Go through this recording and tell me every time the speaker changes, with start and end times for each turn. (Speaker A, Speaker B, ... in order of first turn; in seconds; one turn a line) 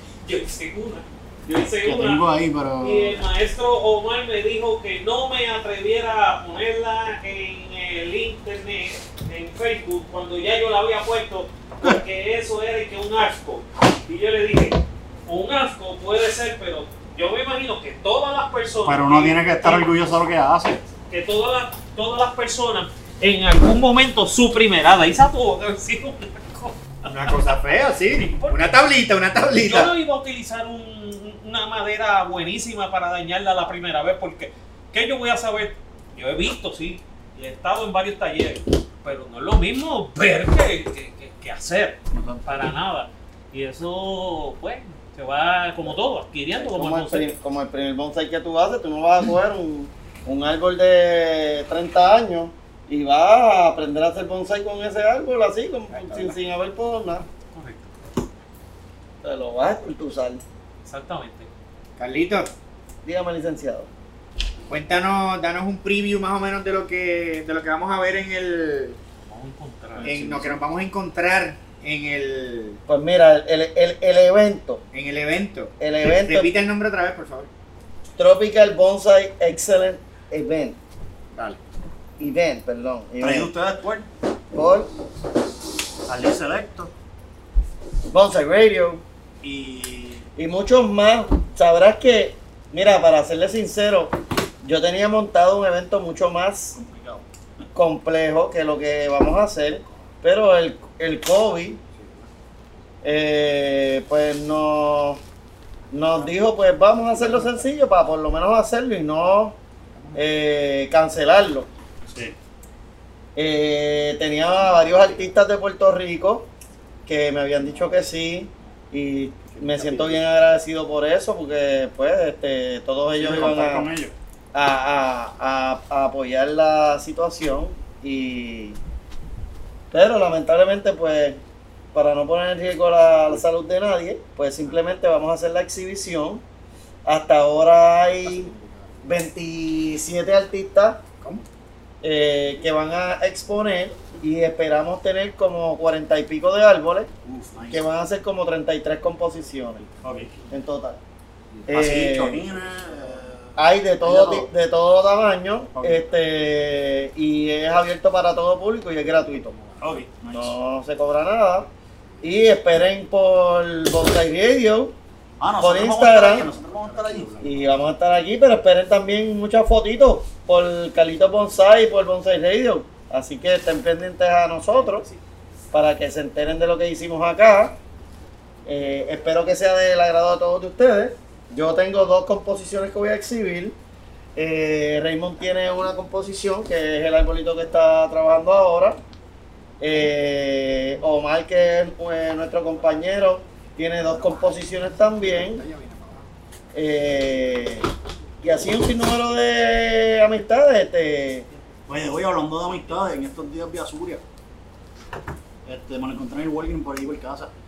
Speaker A: 0.2-19.9
Speaker B: 1.8-3.2
Speaker B: 18.9-20.8
Speaker A: 21.1-28.8
Speaker C: 27.1-29.9
Speaker A: 29.6-47.4
Speaker B: 42.1-42.6
Speaker D: 46.6-57.3
Speaker C: 55.9-56.4
Speaker A: 57.5-58.0
Speaker D: 59.2-60.4
Speaker A: 60.9-61.5
Speaker C: 62.0-62.5
Speaker D: 63.0-63.9
Speaker C: 64.7-69.0
Speaker A: 69.2-70.2
Speaker C: 70.0-72.8
Speaker B: 70.0-70.6
Speaker D: 72.9-74.8
Speaker C: 74.9-77.5
Speaker D: 75.8-76.5
Speaker D: 78.2-80.8
Speaker D: 82.2-83.5
Speaker B: 83.2-84.1
Speaker D: 84.5-84.9
Speaker B: 86.1-86.9
Speaker D: 88.1-89.0
Speaker B: 89.4-90.2
Speaker D: 90.4-96.8
Speaker B: 96.8-97.3
Speaker D: 97.7-101.8
Speaker C: 102.0-102.2
Speaker D: 103.0-105.2
Speaker D: 105.9-109.6
Speaker C: 110.0-110.2
Speaker D: 110.2-111.7
Speaker B: 112.1-112.4
Speaker D: 113.3-116.5
Speaker D: 117.1-123.9
Speaker C: 119.5-120.2
Speaker B: 123.2-124.1
Speaker D: 124.5-128.8
Speaker D: 129.9-131.4
Speaker D: 131.9-136.4
Speaker D: 137.1-138.5
Speaker B: 138.3-138.9
Speaker D: 139.0-141.0
Speaker D: 142.0-147.1
Speaker B: 147.2-147.8
Speaker D: 147.7-149.8
Speaker B: 150.0-150.4
Speaker D: 150.5-151.0
Speaker C: 151.5-151.9
Speaker D: 151.7-152.4
Speaker B: 151.7-154.5
Speaker D: 153.6-159.6
Speaker B: 155.8-156.0
Speaker B: 159.8-160.6
Speaker D: 160.3-161.7
Speaker D: 162.2-164.9
Speaker B: 165.4-167.6
Speaker D: 165.6-166.5
Speaker C: 166.8-167.5
Speaker D: 167.4-175.1
Speaker D: 175.7-177.8
Speaker D: 178.7-183.8
Speaker D: 184.4-189.0
Speaker D: 189.8-195.7
Speaker B: 194.0-195.7
Speaker C: 195.7-196.2
Speaker D: 196.7-197.9
Speaker D: 198.4-201.5
Speaker B: 201.9-204.2
Speaker B: 205.7-207.5